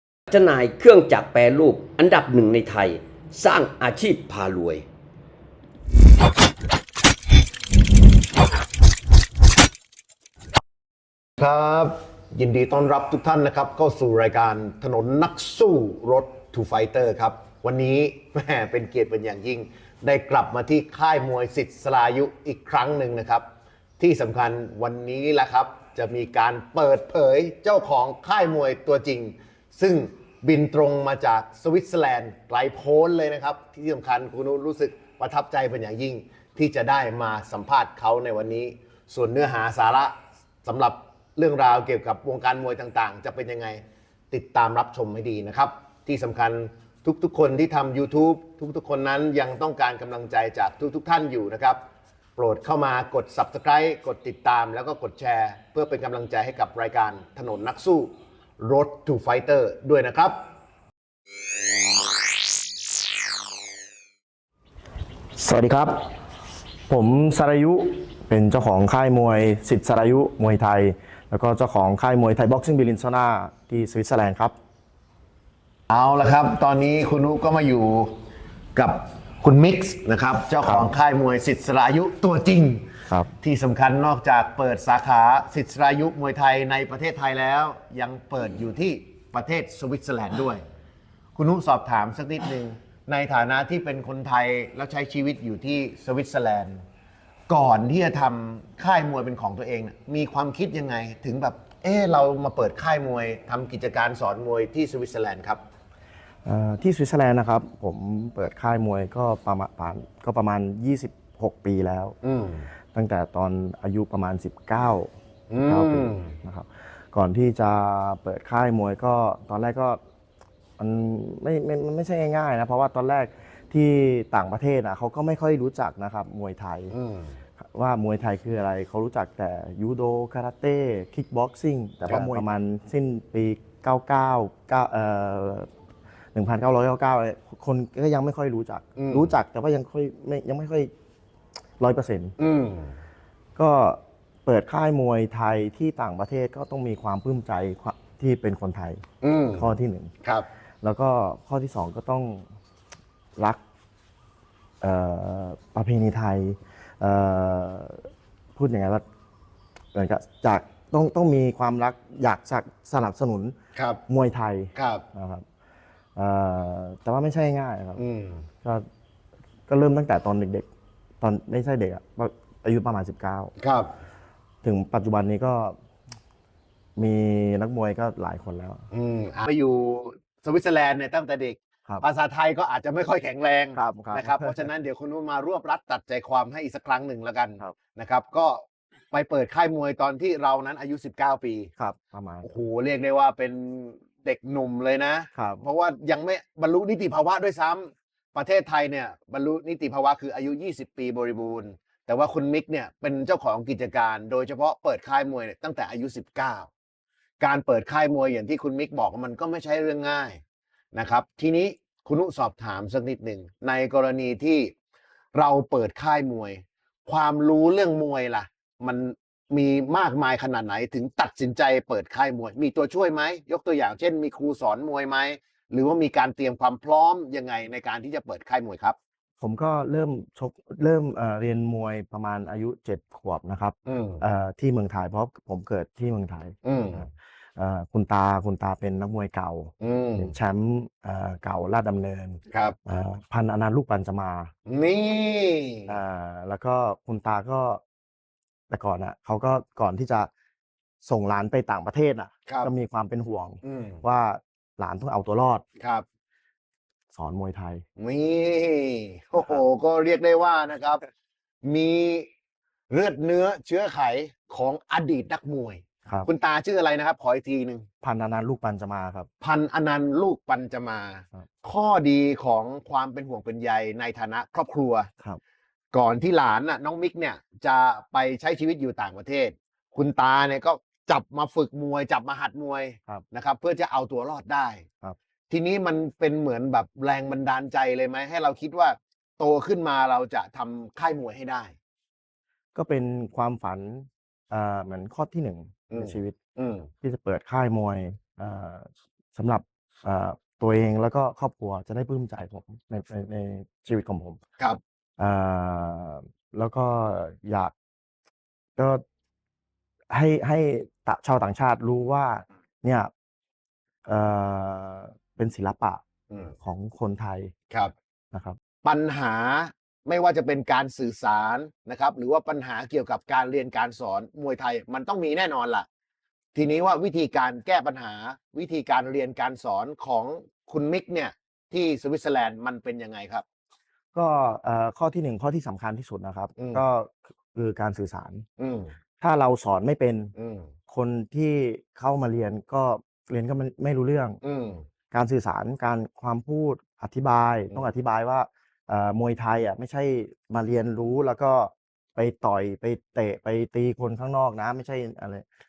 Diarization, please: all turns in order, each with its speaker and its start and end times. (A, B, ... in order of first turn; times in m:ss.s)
0:00.3-0:04.8 A
0:11.4-0:23.4 B
0:24.0-0:51.8 B
0:52.4-1:00.4 B
1:05.4-1:06.0 C
1:06.9-1:14.6 C
1:15.9-1:18.1 B
1:18.8-1:22.9 B
1:20.6-1:20.9 C
1:23.1-1:23.3 C
1:23.4-1:30.6 B
1:31.4-1:36.8 B
1:37.5-1:45.6 B
1:46.4-1:52.2 C
1:52.2-1:52.7 B
1:52.9-2:00.0 C
1:55.5-1:56.4 B
2:00.8-2:07.0 C
2:06.9-2:07.4 B
2:07.6-2:15.7 C
2:12.1-2:12.4 B
2:16.3-2:20.9 C
2:19.0-2:19.3 B
2:21.8-2:22.4 C
2:22.4-2:22.9 B
2:23.6-2:29.0 C
2:29.2-2:29.7 B
2:29.5-2:30.1 C
2:30.8-2:32.4 C
2:34.8-2:39.0 C
2:39.9-2:43.6 C
2:43.8-2:44.0 B
2:44.1-2:45.4 C
2:44.8-2:45.0 B
2:46.2-2:48.0 C
2:48.0-2:48.4 B
2:49.7-2:50.7 C
2:51.2-2:53.5 C
2:53.6-2:53.9 B
2:54.6-2:55.8 C
2:57.0-2:58.9 C
2:58.9-3:11.7 B
3:03.8-3:04.7 C
3:11.8-3:12.5 C
3:12.4-3:26.7 B
3:15.4-3:15.6 C
3:27.4-3:30.4 B
3:30.9-3:34.7 B
3:35.3-3:49.0 B
3:49.4-4:04.5 C
3:53.9-3:54.2 B
3:56.6-3:57.1 B
3:59.8-4:00.3 B
4:02.5-4:02.8 B
4:04.7-4:06.0 B
4:05.9-4:07.8 C
4:08.7-4:10.3 C
4:11.0-4:15.6 C
4:13.6-4:14.0 B
4:15.8-4:16.0 B
4:17.1-4:17.8 C
4:18.0-4:21.0 B
4:21.6-4:22.3 B
4:22.9-4:27.9 B
4:28.0-4:29.3 C
4:29.4-4:35.1 B
4:35.9-4:44.8 B
4:45.5-4:51.7 B
4:52.8-4:56.4 C
4:55.9-4:56.9 B
4:57.0-5:04.4 C
5:05.2-5:07.7 C
5:08.8-5:09.0 C
5:10.1-5:13.1 C
5:14.1-5:16.0 C
5:16.6-5:17.5 C
5:18.3-5:18.6 C
5:18.8-5:25.9 B
5:26.5-5:33.4 B
5:34.1-5:38.4 C
5:36.6-5:36.8 B
5:38.6-5:39.0 B
5:39.2-5:40.3 C
5:40.4-5:40.7 B
5:40.9-5:44.4 C
5:44.4-5:44.8 B
5:45.1-5:55.4 C